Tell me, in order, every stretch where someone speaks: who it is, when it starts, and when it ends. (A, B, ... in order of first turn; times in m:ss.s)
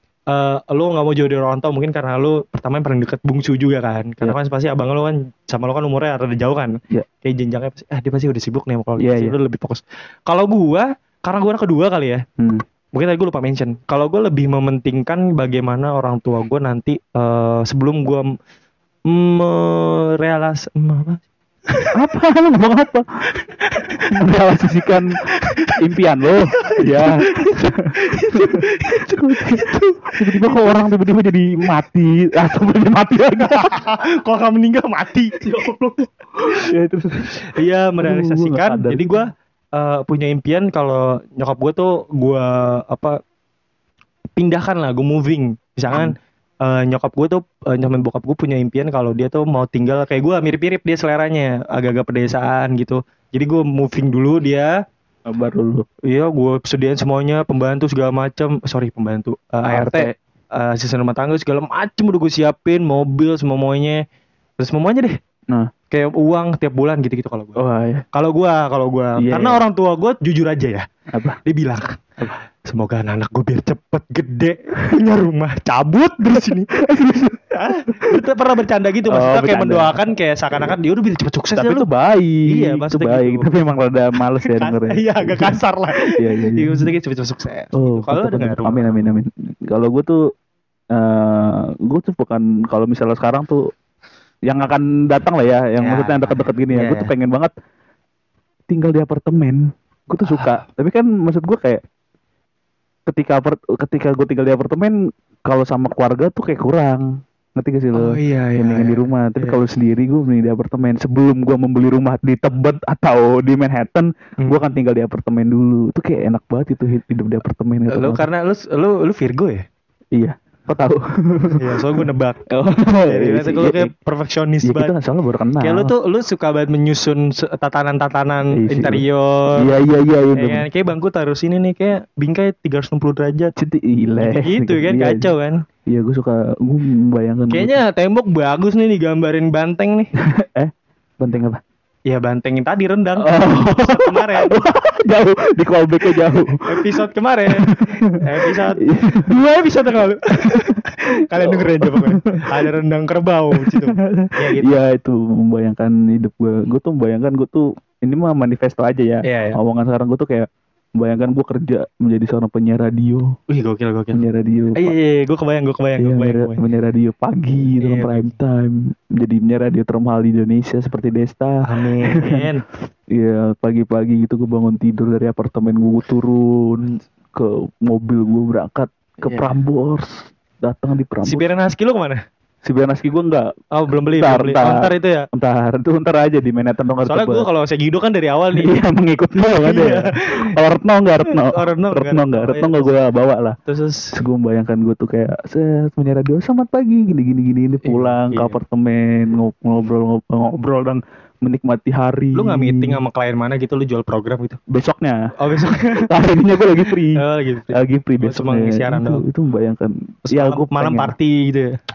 0:00.3-0:12.2 A
0:09.0-0:09.3 B
0:12.9-0:18.3 A
0:19.1-0:21.9 A
0:22.0-0:23.0 B
0:23.5-0:24.1 A
0:24.1-0:25.2 B
0:24.9-0:25.8 A
0:25.7-0:33.8 B
0:26.5-0:30.9 A
0:33.4-0:35.7 A
0:35.4-0:37.4 B
0:37.5-0:43.2 A
0:38.0-0:39.2 B
0:44.4-0:54.7 A
0:55.3-0:55.8 B
0:56.1-1:04.0 A
0:59.7-1:00.1 B
1:04.6-1:05.2 A
1:05.9-1:10.9 A
1:07.6-1:08.0 B
1:09.2-1:09.6 B
1:11.1-1:11.4 B
1:11.4-1:16.8 A
1:16.7-1:18.2 B
1:17.5-1:21.9 A
1:19.1-1:20.0 B
1:21.6-1:26.9 B
1:22.5-1:23.6 A
1:24.4-1:29.1 A
1:27.8-1:30.2 B
1:30.9-1:33.7 B
1:34.5-1:37.5 B
1:35.8-1:37.1 A
1:38.7-1:41.8 B
1:40.2-1:40.6 A
1:43.1-1:58.3 B
1:47.9-1:49.6 A
1:57.9-1:59.6 A
2:00.1-2:03.9 B
2:01.6-2:02.5 A
2:03.1-2:05.0 A
2:04.6-2:05.9 B
2:05.6-2:09.7 A
2:08.5-2:09.0 B
2:09.6-2:10.7 B
2:10.4-2:13.5 A
2:13.6-2:15.3 B
2:14.2-2:15.6 A
2:15.9-2:17.8 B
2:17.5-2:20.1 A
2:20.2-2:21.6 B
2:22.1-2:24.6 A
2:23.2-2:27.0 B
2:26.2-2:34.8 A
2:27.7-2:29.4 B
2:31.3-2:32.7 B
2:33.6-2:43.4 B
2:39.2-2:39.6 A
2:43.5-2:46.6 A
2:44.1-2:45.0 B
2:46.0-2:52.5 B
2:47.8-2:48.4 A
2:51.6-2:52.6 A
2:53.1-3:01.5 B
3:01.2-3:02.2 A
3:02.6-3:03.5 B
3:03.7-3:05.3 A
3:04.0-3:07.5 B
3:07.0-3:08.8 A
3:08.5-3:13.6 B
3:09.6-3:10.5 A
3:11.2-3:13.1 A
3:13.6-3:14.1 A
3:14.1-3:23.0 B
3:17.8-3:18.6 A
3:22.4-3:24.6 A
3:24.7-3:31.1 B
3:25.4-3:29.2 A
3:30.3-3:31.8 A